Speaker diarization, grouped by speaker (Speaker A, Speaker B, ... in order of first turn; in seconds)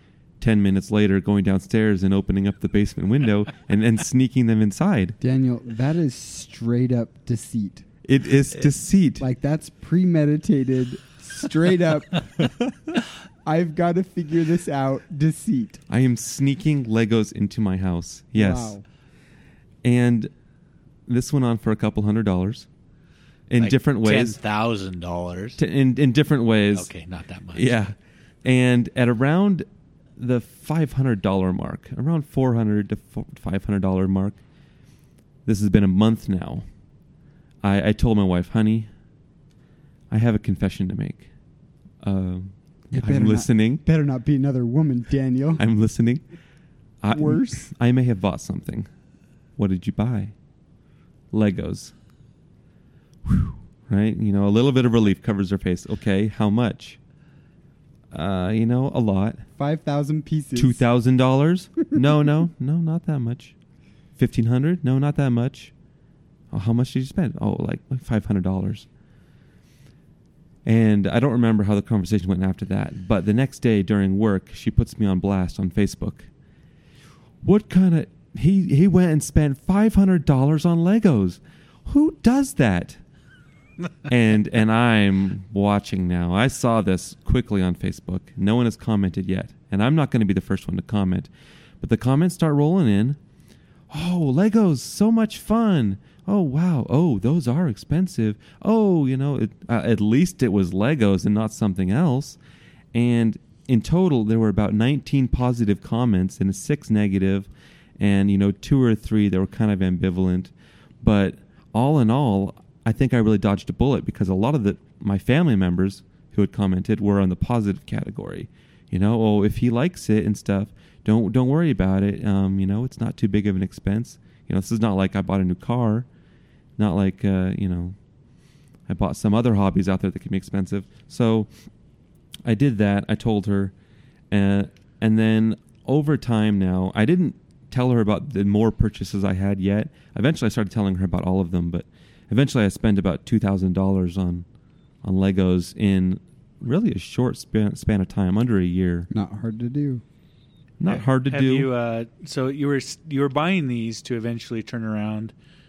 Speaker A: 0.4-5.2, 8.0-9.2, 15.9-18.8, 19.8-20.3, 21.1-22.7, 23.5-24.4, 25.6-26.9, 27.5-29.6, 30.2-34.4, 35.5-36.6, 37.6-38.9, 40.1-41.3, 42.0-43.8, 45.6-46.2, 47.0-48.9, 49.6-50.3, 51.3-51.9, 53.2-57.0, 58.1-59.4, 60.5-63.5, 64.2-65.7, 66.5-68.9, 70.6-76.3, 77.4-83.0, 84.0-91.3, 91.8-93.2, 93.9-102.4, 102.9-107.5, 108.0-110.5, 111.0-126.1, 126.8-127.9, 128.9-131.5, 132.4-133.7, 134.3-144.4, 145.0-149.1, 150.8-151.7
Speaker B: 5.2-7.8, 9.2-12.6, 13.4-15.8, 18.3-18.8, 42.9-45.6, 47.1-47.7, 59.6-60.8, 149.1-150.0
Speaker C: 23.6-25.6, 26.7-27.7, 150.8-155.3